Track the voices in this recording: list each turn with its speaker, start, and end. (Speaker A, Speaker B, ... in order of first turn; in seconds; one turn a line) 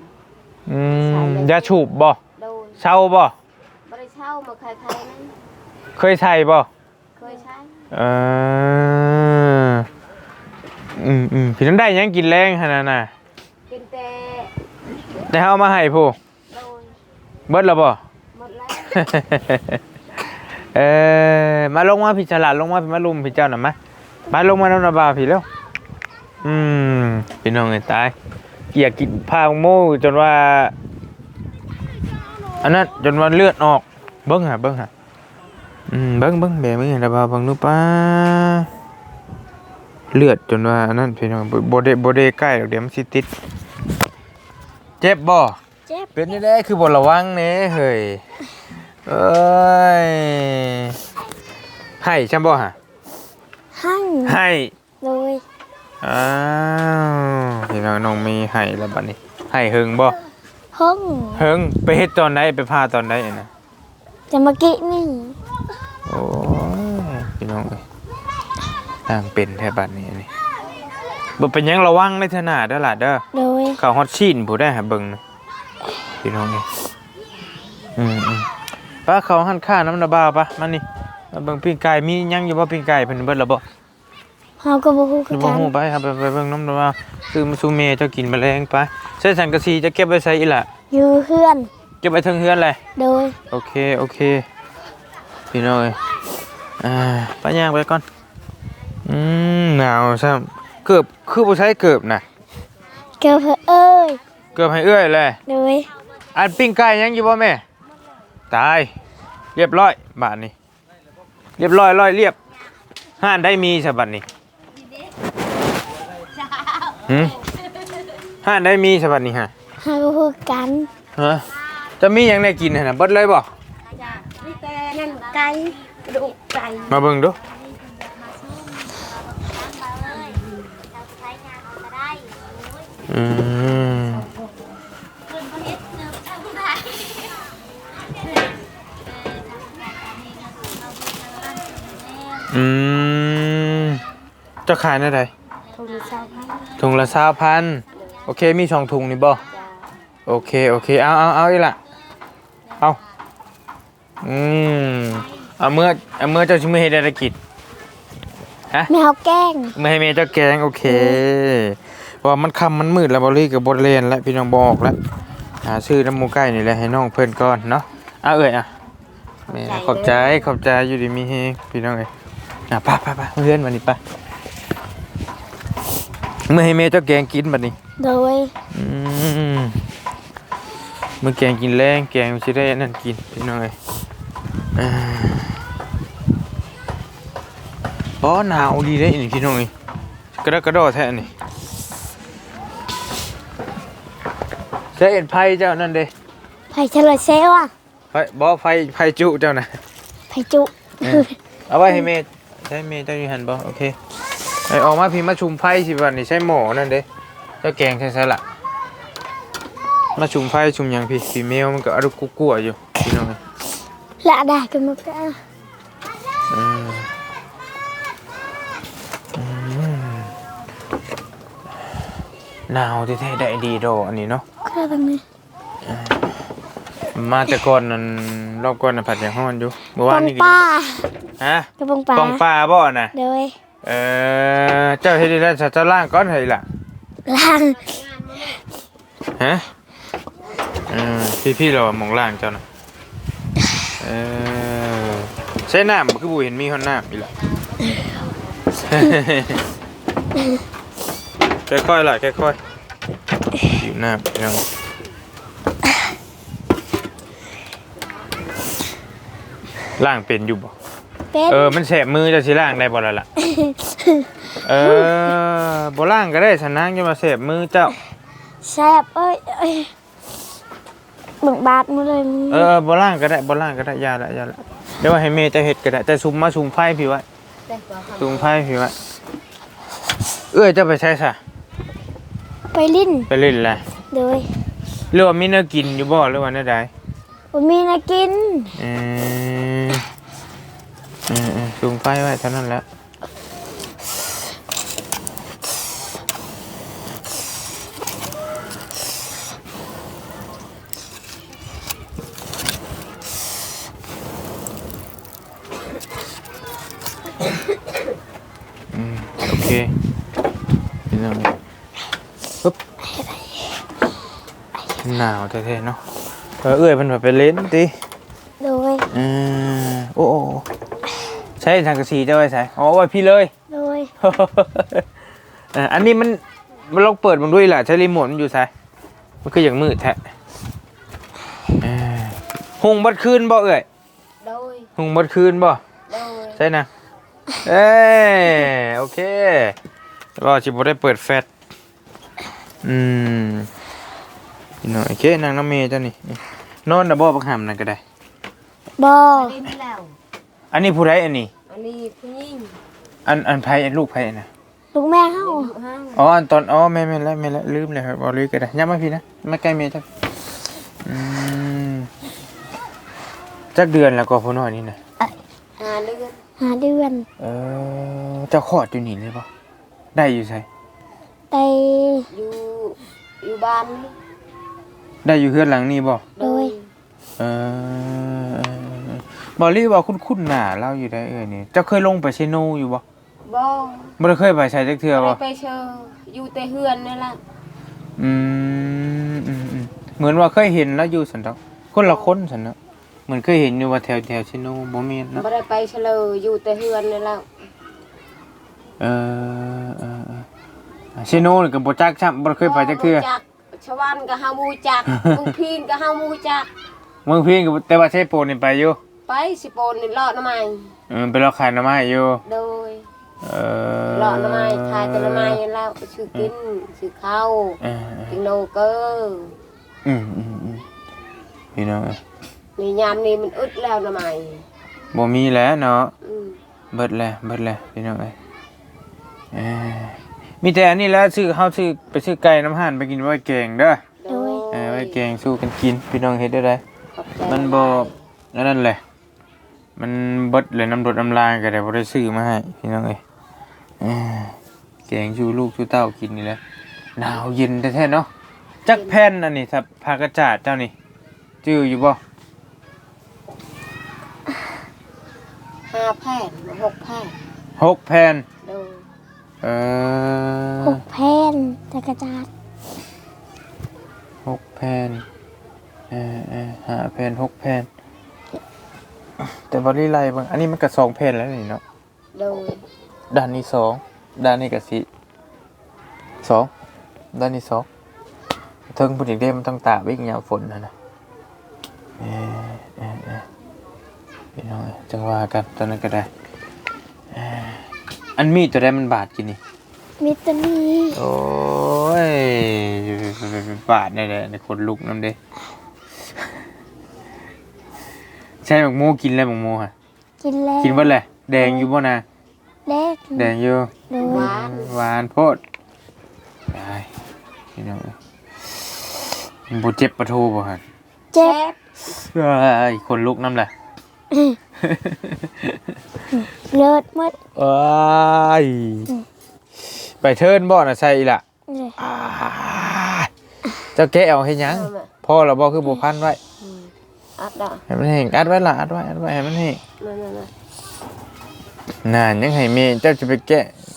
Speaker A: 0.7-2.2
Speaker B: 1.0-1.8
Speaker B: 2.4-2.8
Speaker A: 2.8-3.3
Speaker B: 3.9-5.3
Speaker A: 6.0-6.7
Speaker B: 7.2-7.7
Speaker A: 7.9-9.9
Speaker A: 11.0-13.1
Speaker B: 13.7-14.5
Speaker A: 15.3-16.2
Speaker B: 16.5-16.9
Speaker A: 17.5-18.0
Speaker B: 18.3-19.1
Speaker A: 18.9-19.8
Speaker A: 20.7-23.8
Speaker A: 24.3-25.5
Speaker A: 26.4-28.1
Speaker A: 28.7-30.7
Speaker A: 32.6-34.9
Speaker A: 35.9-38.7
Speaker A: 40.1-43.3
Speaker A: 45.0-45.6
Speaker A: 46.1-48.2
Speaker A: 49.1-51.0
Speaker A: 52.0-52.8
Speaker C: 53.7-54.4
Speaker A: 54.2-54.7
Speaker C: 55.0-55.4
Speaker A: 56.0-60.2
Speaker C: 60.7-61.4
Speaker A: 61.4-63.5
Speaker C: 64.3-65.4
Speaker A: 66.1-67.8
Speaker A: 69.1-70.3
Speaker A: 71.4-73.2
Speaker C: 73.3-73.8
Speaker A: 73.8-75.2
Speaker A: 76.2-76.7
Speaker A: 78.0-78.5
Speaker A: 79.1-83.6
Speaker C: 84.6-85.7
Speaker A: 85.3-90.7
Speaker C: 90.9-91.7
Speaker A: 92.0-92.8
Speaker C: 93.0-93.4
Speaker A: 93.5-94.5
Speaker A: 95.5-96.0
Speaker A: 96.8-98.0
Speaker A: 99.0-102.2
Speaker C: 103.2-104.2
Speaker A: 104.5-105.4
Speaker C: 105.5-105.9
Speaker A: 106.3-107.6
Speaker A: 108.5-108.9
Speaker A: 109.5-110.5
Speaker A: 111.6-112.4
Speaker A: 113.2-114.2
Speaker A: 117.1-117.3
Speaker A: 118.4-119.5
Speaker C: 119.8-120.9
Speaker A: 121.2-121.5
Speaker A: 122.0-123.5
Speaker B: 124.0-126.9
Speaker A: 126.9-127.4
Speaker A: 133.1-134.3
Speaker A: 142.5-144.0
Speaker A: 144.7-145.3
Speaker B: 145.8-146.7
Speaker A: 146.8-149.4
Speaker B: 149.5-149.8
Speaker A: 150.3-151.8
Speaker A: 154.2-157.4
Speaker C: 158.9-159.8
Speaker A: 159.8-165.0
Speaker C: 160.9-161.2
Speaker A: 165.6-168.7
Speaker A: 169.5-172.1
Speaker B: 169.5-170.5
Speaker A: 172.7-174.0
Speaker A: 176.5-177.8
Speaker C: 178.0-178.5
Speaker A: 178.7-179.8
Speaker A: 181.2-183.8
Speaker A: 184.8-185.6
Speaker A: 188.2-189.7
Speaker A: 190.4-191.3
Speaker A: 195.0-196.1
Speaker C: 196.7-197.7
Speaker A: 198.1-199.8
Speaker C: 200.3-201.4
Speaker A: 201.0-204.0
Speaker A: 204.7-207.1
Speaker A: 207.6-208.4
Speaker A: 210.2-213.4
Speaker C: 214.2-215.4
Speaker A: 216.5-217.1
Speaker A: 219.3-220.3
Speaker A: 222.7-224.4
Speaker C: 224.7-225.2
Speaker A: 225.9-226.2
Speaker A: 227.1-230.6
Speaker C: 230.1-231.1
Speaker A: 231.4-233.1
Speaker C: 231.8-232.4
Speaker C: 233.1-233.6
Speaker A: 233.8-236.6
Speaker C: 237.3-237.8
Speaker B: 237.4-238.6
Speaker A: 239.4-239.7
Speaker A: 240.9-242.6
Speaker A: 244.0-247.3
Speaker B: 247.7-248.2
Speaker A: 248.8-249.6
Speaker A: 251.7-252.6
Speaker A: 253.7-254.6
Speaker A: 260.0-260.7
Speaker C: 261.3-261.8
Speaker A: 261.5-263.3
Speaker C: 263.4-265.1
Speaker A: 264.6-267.9
Speaker C: 268.6-269.9
Speaker C: 271.4-272.7
Speaker A: 272.5-277.2
Speaker B: 277.7-278.6
Speaker A: 278.2-278.9
Speaker A: 280.5-281.4
Speaker C: 282.7-283.3
Speaker A: 283.3-283.8
Speaker C: 284.1-284.6
Speaker A: 285.1-286.9
Speaker C: 287.5-288.7
Speaker A: 288.8-290.0
Speaker A: 291.3-292.8
Speaker A: 308.9-309.9
Speaker A: 311.1-311.5
Speaker C: 313.0-313.7
Speaker A: 315.0-316.0
Speaker A: 316.6-317.9
Speaker C: 318.6-319.1
Speaker A: 319.1-320.7
Speaker A: 321.6-323.5
Speaker C: 323.7-324.1
Speaker A: 324.2-325.1
Speaker A: 325.7-328.7
Speaker A: 329.4-330.2
Speaker A: 331.8-333.9
Speaker B: 334.4-334.9
Speaker A: 335.0-335.8
Speaker B: 336.1-336.6
Speaker A: 336.6-336.9
Speaker A: 337.6-339.8
Speaker A: 340.4-341.5
Speaker A: 342.8-343.7
Speaker A: 344.8-348.0
Speaker C: 349.0-349.6
Speaker B: 349.3-350.2
Speaker A: 350.7-351.5
Speaker B: 351.7-352.8
Speaker A: 353.3-354.5
Speaker C: 354.9-355.7
Speaker B: 355.4-356.2
Speaker A: 356.1-360.1
Speaker A: 361.1-362.1
Speaker A: 363.7-365.0
Speaker B: 365.8-366.4
Speaker C: 366.6-367.3
Speaker A: 367.4-369.5
Speaker A: 370.1-370.7
Speaker C: 371.5-372.3
Speaker B: 372.3-374.1
Speaker A: 375.2-376.2
Speaker B: 376.4-376.9
Speaker C: 376.4-376.7
Speaker A: 377.4-383.0
Speaker B: 383.5-384.2
Speaker A: 384.2-385.4
Speaker B: 385.1-387.4
Speaker A: 388.2-392.8
Speaker B: 392.0-392.3
Speaker A: 393.3-395.4
Speaker B: 395.4-397.5
Speaker A: 399.0-400.5
Speaker A: 401.2-403.3
Speaker B: 402.6-406.7
Speaker A: 405.1-405.5
Speaker A: 407.3-409.0
Speaker B: 409.3-410.9
Speaker A: 411.1-412.4
Speaker B: 412.4-413.1
Speaker A: 413.4-415.6
Speaker B: 414.1-419.6
Speaker A: 417.8-418.4
Speaker A: 420.1-420.9
Speaker A: 421.8-422.2
Speaker B: 422.8-424.6
Speaker A: 425.1-426.1
Speaker B: 426.2-426.6
Speaker A: 426.9-428.4
Speaker A: 429.5-434.0
Speaker B: 434.2-435.2
Speaker C: 434.3-434.6
Speaker A: 434.7-436.8
Speaker B: 437.2-438.2
Speaker A: 437.5-439.0
Speaker A: 440.0-443.2
Speaker A: 444.0-444.6
Speaker A: 445.1-446.6
Speaker A: 447.2-448.3
Speaker A: 448.9-450.9
Speaker B: 448.9-449.2
Speaker A: 451.6-452.2
Speaker B: 455.9-457.4
Speaker A: 457.8-458.4
Speaker B: 458.6-459.0
Speaker A: 459.6-461.0
Speaker C: 460.8-462.5
Speaker A: 464.5-465.2
Speaker A: 466.1-467.9
Speaker A: 469.4-471.8
Speaker B: 472.4-472.8
Speaker A: 473.3-475.1
Speaker A: 476.4-476.7
Speaker A: 477.3-477.9
Speaker A: 478.9-480.9
Speaker A: 482.2-483.4
Speaker A: 484.6-486.3
Speaker A: 487.3-489.6
Speaker C: 490.2-491.2
Speaker A: 491.1-495.4
Speaker A: 498.6-499.9
Speaker C: 500.4-501.9
Speaker A: 500.8-502.2
Speaker C: 502.9-503.5
Speaker A: 503.4-505.6
Speaker C: 504.1-504.5
Speaker B: 504.2-504.9
Speaker A: 506.7-507.1
Speaker A: 507.8-508.1
Speaker A: 509.7-510.8
Speaker B: 511.4-511.8
Speaker A: 512.1-513.7
Speaker C: 514.3-514.6
Speaker A: 514.8-515.8
Speaker C: 516.3-517.4
Speaker A: 517.6-519.1
Speaker A: 519.8-521.4
Speaker C: 521.7-522.0
Speaker A: 522.0-523.3
Speaker A: 524.0-526.4
Speaker B: 524.7-525.1
Speaker B: 526.6-527.8
Speaker A: 527.9-529.8
Speaker B: 530.0-530.5
Speaker A: 532.0-533.7